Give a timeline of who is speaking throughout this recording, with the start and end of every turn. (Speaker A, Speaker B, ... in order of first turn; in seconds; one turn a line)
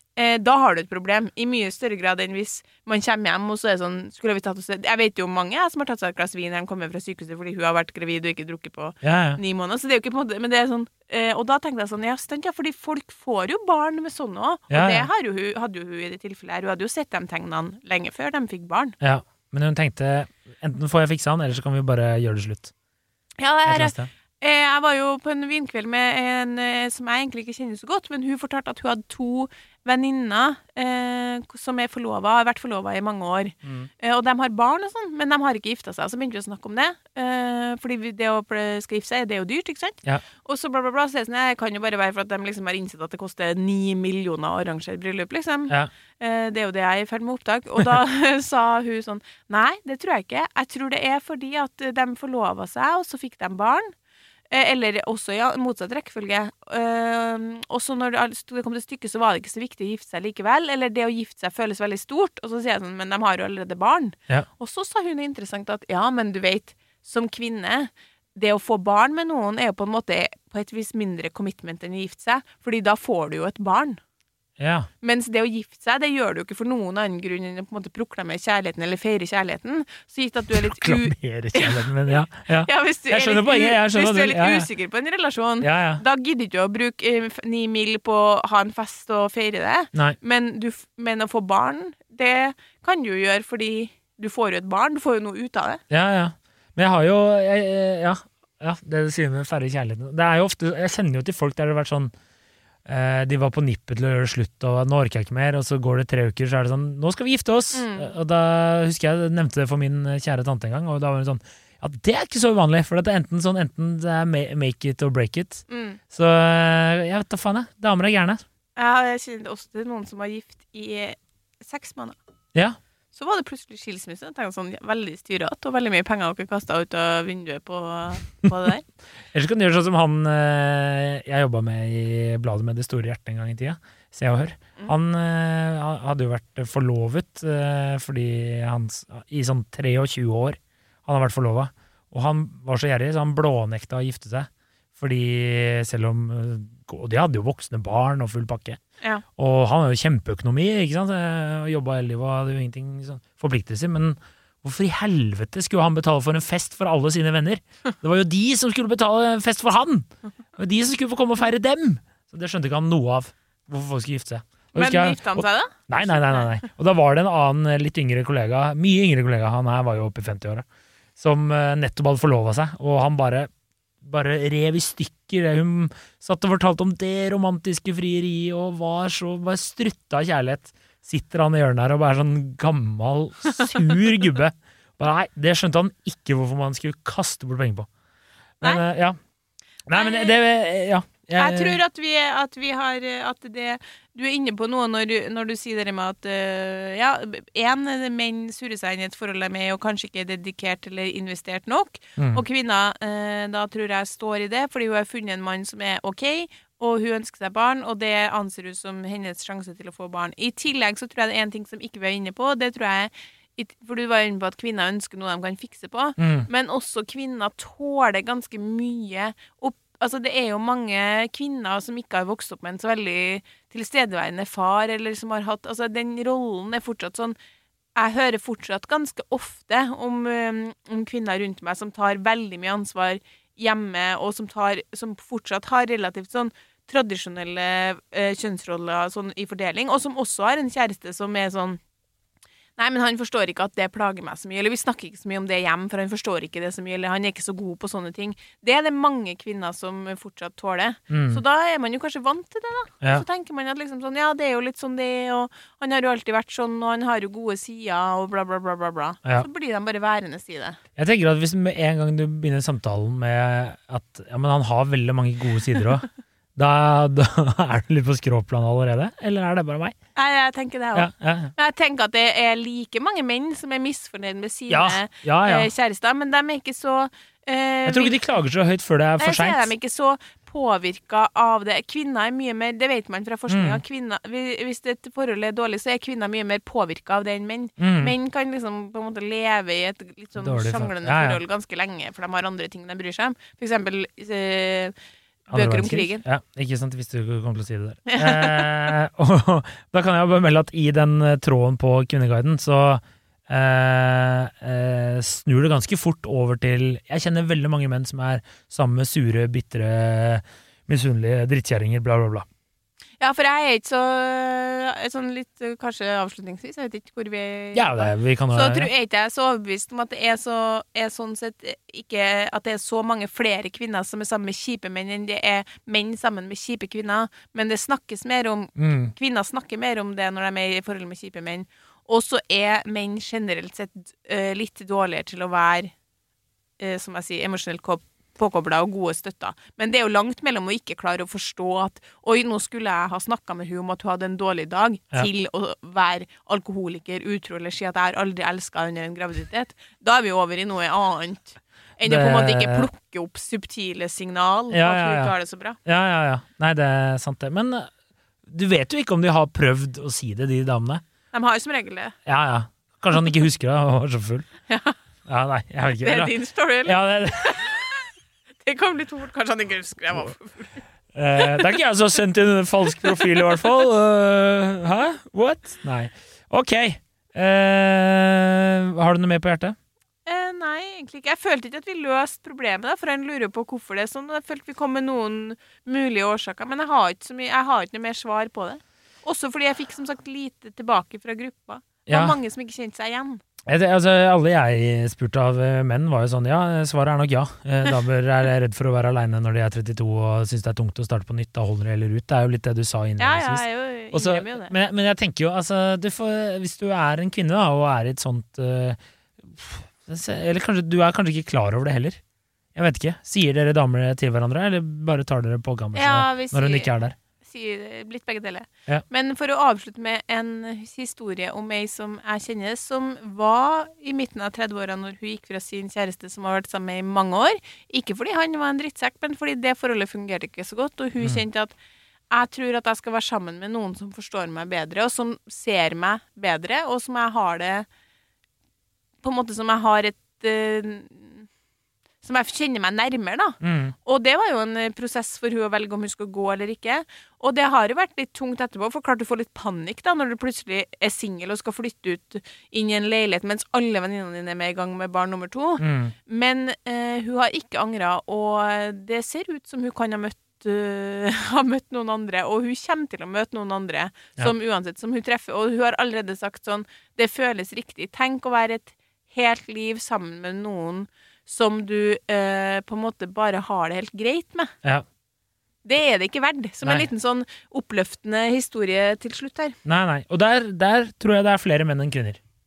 Speaker A: 0.2-19.0
Speaker B: 9.0-9.4
Speaker B: 14.7-15.1
Speaker B: 19.0-22.7
Speaker A: 23.4-53.9
Speaker B: 23.7-24.1
Speaker B: 33.6-33.9
Speaker A: 54.5-74.0
Speaker B: 74.6-74.9
Speaker A: 75.0-95.8
Speaker B: 80.5-84.7
Speaker B: 85.6-86.0
Speaker B: 95.9-102.1
Speaker B: 102.9-118.4
Speaker A: 107.7-108.2
Speaker A: 115.7-116.0
Speaker A: 118.8-122.2
Speaker A: 123.1-128.8
Speaker B: 129.3-148.8
Speaker B: 149.4-170.7
Speaker A: 164.8-166.7
Speaker B: 171.2-173.5
Speaker B: 174.0-187.9
Speaker B: 188.6-189.2
Speaker B: 189.9-191.8
Speaker A: 189.9-190.4
Speaker A: 191.4-227.4
Speaker B: 202.2-202.4
Speaker B: 216.2-216.5
Speaker A: 228.0-241.8
Speaker A: 242.8-260.8
Speaker B: 251.1-251.4
Speaker B: 261.0-269.9
Speaker A: 270.2-278.2
Speaker B: 270.9-271.5
Speaker B: 274.7-275.7
Speaker B: 277.9-279.7
Speaker A: 279.2-294.9
Speaker B: 283.5-283.8
Speaker B: 287.8-288.1
Speaker B: 290.4-291.4
Speaker B: 295.5-312.5
Speaker A: 295.5-296.2
Speaker A: 298.1-298.7
Speaker A: 313.2-335.9
Speaker B: 317.7-318.9
Speaker B: 328.8-329.1
Speaker A: 336.8-355.8
Speaker B: 352.0-352.9
Speaker B: 354.7-357.9
Speaker B: 358.5-361.0
Speaker A: 361.3-362.1
Speaker B: 362.3-364.5
Speaker A: 364.7-365.0
Speaker B: 365.3-367.7
Speaker A: 366.0-368.1
Speaker A: 368.6-370.8
Speaker B: 371.1-379.8
Speaker A: 371.4-371.7
Speaker A: 373.0-373.6
Speaker A: 380.3-393.4
Speaker B: 392.1-392.4
Speaker B: 393.7-412.2
Speaker A: 403.2-404.7
Speaker B: 412.8-417.2
Speaker A: 415.9-431.8
Speaker A: 432.3-437.9
Speaker A: 439.2-441.5
Speaker A: 442.2-474.7
Speaker B: 443.6-443.9
Speaker B: 455.8-456.1
Speaker A: 475.9-479.8
Speaker B: 479.9-482.4